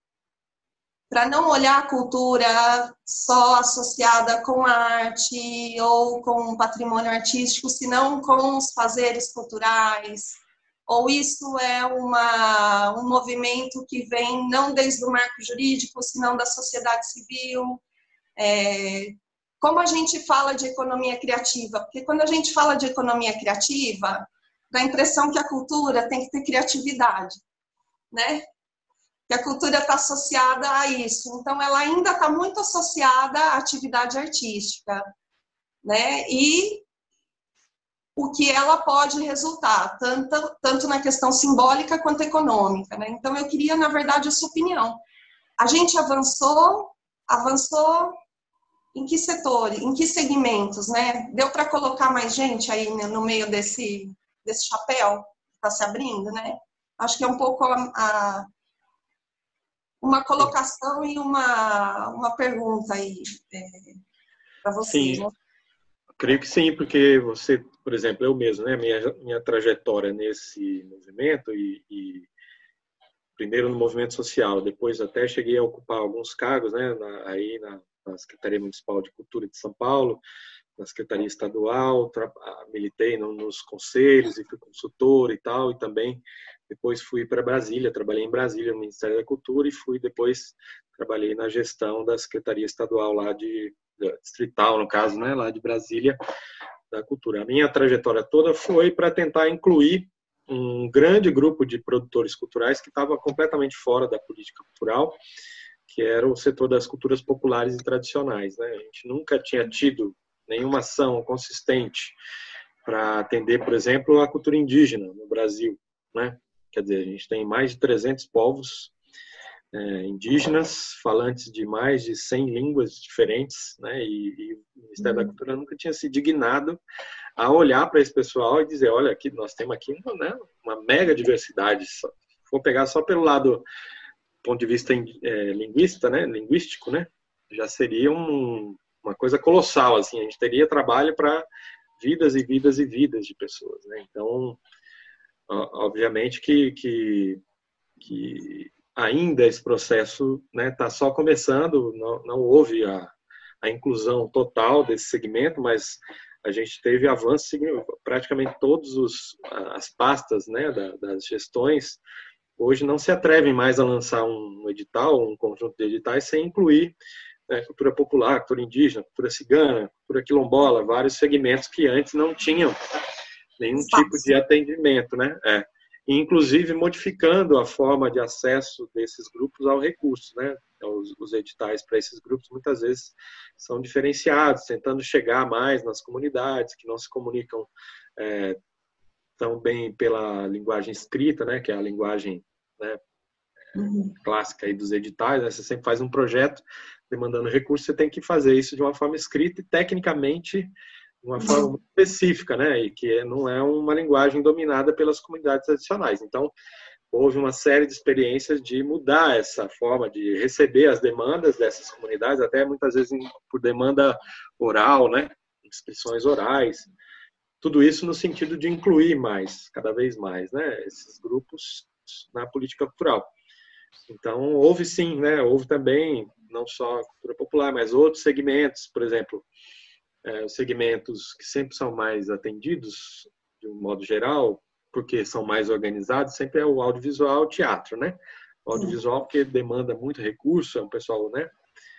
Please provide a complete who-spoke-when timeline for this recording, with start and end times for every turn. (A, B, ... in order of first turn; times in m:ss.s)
0:01.1-0:17.8 A
0:18.4-0:27.4 A
0:28.1-0:28.4 A
0:29.3-0:35.1 A
0:35.8-0:36.8 A
0:38.2-0:45.0 A
0:45.6-0:48.2 A
0:48.9-0:58.5 A
1:00.0-1:04.0 A
1:04.6-1:05.3 A
1:04.8-1:05.2 B
1:06.2-1:12.3 B
1:13.4-1:20.2 B
1:20.8-1:36.2 B
1:36.9-1:45.2 B
1:45.9-1:52.2 B
1:52.8-1:58.9 B
1:59.7-2:06.8 B
2:05.0-2:05.3 A
2:07.4-2:13.6 B
2:14.4-2:21.4 B
2:22.0-2:24.6 B
2:25.5-2:27.4 B
2:28.0-2:33.1 B
2:33.6-2:42.0 B
2:42.6-2:46.9 B
2:47.5-2:52.8 B
2:53.6-3:08.6 B
2:53.7-2:54.3 A
3:09.4-3:13.0 B
3:13.7-3:14.1 A
3:14.2-3:20.7 B
3:21.2-3:26.5 B
3:21.4-3:21.7 A
3:27.1-3:36.9 B
3:37.6-3:43.3 B
3:44.1-3:49.4 B
3:50.2-4:01.5 B